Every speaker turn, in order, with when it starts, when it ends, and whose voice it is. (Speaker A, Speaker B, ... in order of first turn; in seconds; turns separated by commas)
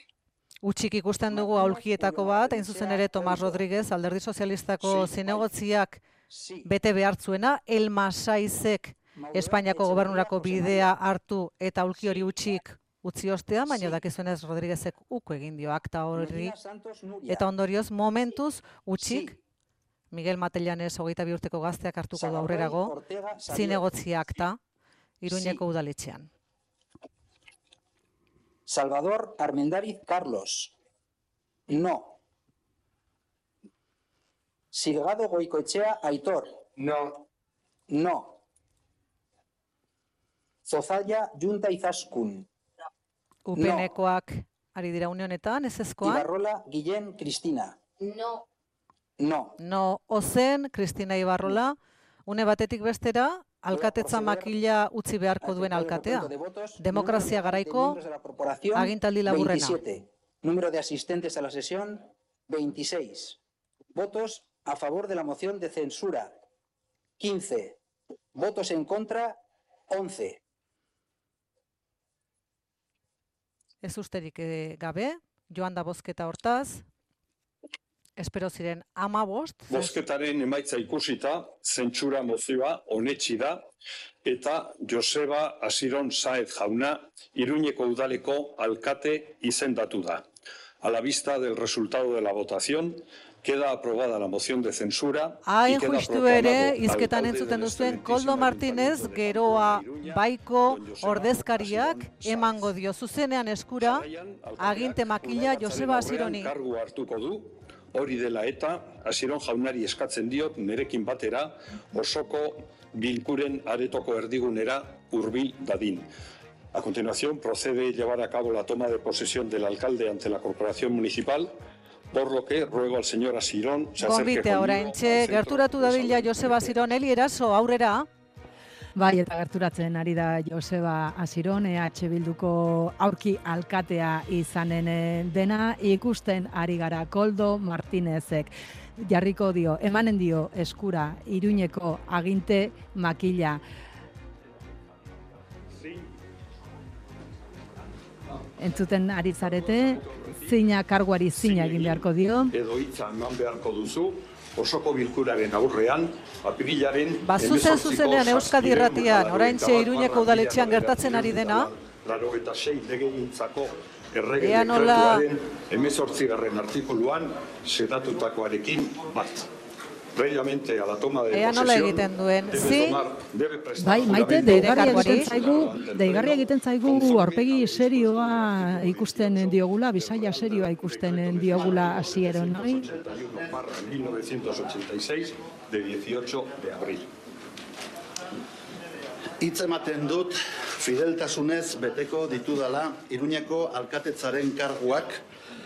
Speaker A: 0.6-6.0, Speaker B: 1.3-3.6, Speaker B: 4.8-5.5, Speaker B: 6.3-6.7, Speaker A: 6.6-16.6, Speaker B: 9.2-10.9, Speaker B: 12.0-12.3, Speaker B: 13.7-14.0, Speaker B: 16.1-17.5, Speaker A: 17.3-19.3, Speaker B: 18.9-19.4, Speaker A: 20.1-22.9, Speaker B: 22.1-23.9, Speaker A: 23.5-24.6, Speaker A: 25.2-26.3, Speaker B: 25.3-25.6, Speaker B: 28.6-30.7, Speaker B: 31.7-32.2, Speaker B: 34.7-37.2, Speaker B: 37.9-38.4, Speaker B: 40.6-42.5, Speaker A: 43.5-46.2, Speaker B: 43.5-43.9, Speaker B: 46.0-47.8, Speaker B: 49.2-49.6, Speaker A: 49.6-58.0, Speaker B: 53.7-54.5, Speaker B: 55.4-63.4, Speaker A: 58.7-59.8, Speaker B: 63.9-66.4, Speaker B: 67.2-67.8, Speaker B: 68.3-70.4, Speaker A: 73.8-76.8, Speaker A: 78.2-80.0, Speaker C: 79.7-83.7, Speaker C: 84.2-90.2, Speaker C: 90.8-102.7, Speaker A: 95.4-104.1, Speaker C: 103.8-116.1, Speaker A: 104.6-106.5, Speaker C: 116.7-121.5, Speaker C: 122.1-126.8, Speaker A: 124.0-128.1, Speaker D: 128.9-143.6, Speaker C: 145.8-146.1, Speaker D: 148.6-152.5, Speaker C: 149.6-150.5, Speaker C: 151.3-169.5, Speaker A: 157.2-161.7, Speaker A: 164.4-165.3, Speaker C: 170.1-187.1, Speaker A: 171.3-173.0, Speaker D: 173.8-182.9, Speaker A: 174.3-175.3, Speaker E: 189.4-195.2